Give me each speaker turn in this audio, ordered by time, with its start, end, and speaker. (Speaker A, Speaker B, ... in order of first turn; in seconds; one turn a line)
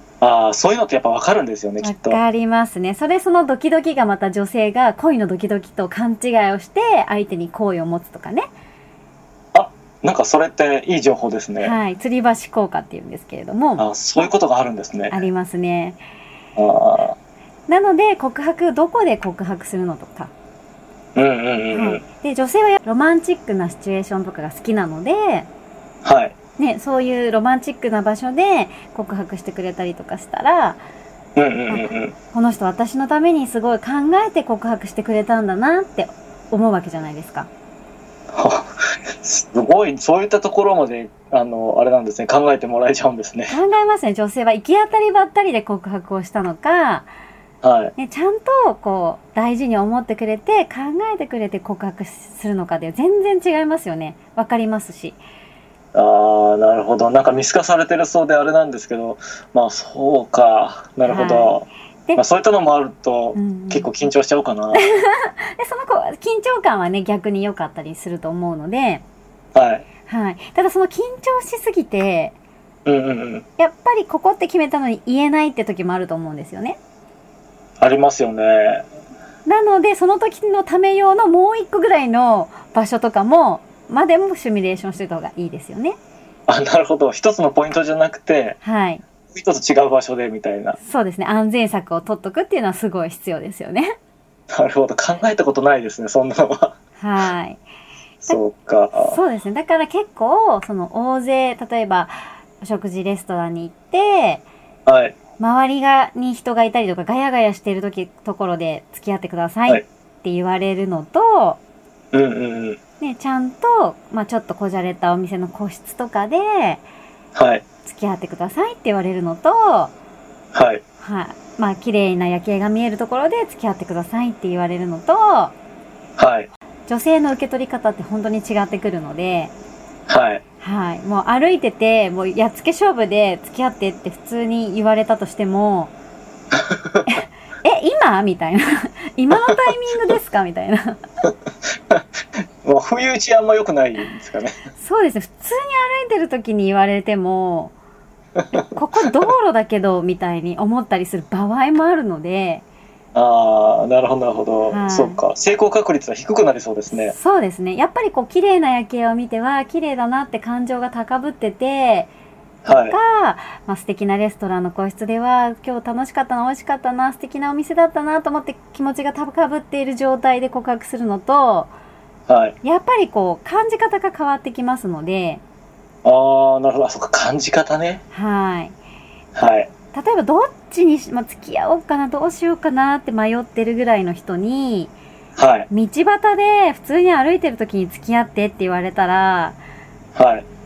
Speaker A: 0.2-2.2
Speaker B: 1.8-8.4
Speaker A: 9.5-11.8
Speaker B: 11.6-13.8
Speaker A: 13.8-15.2
Speaker B: 15.1-16.0
Speaker A: 16.6-17.1
Speaker B: 17.7-20.3
Speaker A: 21.1-22.0
Speaker B: 21.7-25.5
Speaker A: 26.0-26.3
Speaker B: 26.6-30.8
Speaker A: 31.4-32.1
Speaker B: 31.7-37.5
Speaker A: 38.3-43.5
Speaker B: 43.5-47.1
Speaker A: 47.6-47.9
Speaker B: 48.0-55.2
Speaker A: 55.9-64.8
Speaker B: 61.0-62.2
Speaker B: 63.3-63.9
Speaker B: 64.7-69.0
Speaker A: 69.5-69.8
Speaker B: 70.1-72.3
Speaker A: 72.8-73.5
Speaker B: 73.6-76.8
Speaker A: 77.8-78.9
Speaker B: 79.5-86.0
Speaker A: 86.5-88.6
Speaker B: 88.6-89.0
Speaker A: 89.3-90.8
Speaker B: 90.8-93.9
Speaker A: 94.5-96.8
Speaker B: 97.0-97.6
Speaker A: 98.2-99.2
Speaker B: 99.0-104.4
Speaker A: 104.8-105.2
Speaker B: 105.4-111.6
Speaker A: 112.1-112.8
Speaker B: 113.0-116.8
Speaker A: 117.3-117.6
Speaker B: 117.8-119.9
Speaker A: 120.5-120.8
Speaker B: 121.0-125.5
Speaker A: 126.2-126.5
Speaker B: 126.9-129.5
Speaker A: 130.1-130.4
Speaker B: 130.6-135.9
Speaker A: 136.6-137.0
Speaker B: 137.6-141.0
Speaker A: 142.6-144.6
Speaker B: 144.8-147.7
Speaker B: 148.5-152.6
Speaker A: 153.1-157.1
Speaker B: 154.7-155.2
Speaker B: 156.9-162.1
Speaker A: 162.6-163.0
Speaker B: 162.9-171.7
Speaker A: 172.3-172.6
Speaker B: 172.6-175.4
Speaker A: 176.0-178.0
Speaker B: 178.1-178.7
Speaker A: 179.3-179.7
Speaker B: 179.9-184.9
Speaker A: 185.4-185.7
Speaker B: 185.7-189.6
Speaker A: 190.1-190.4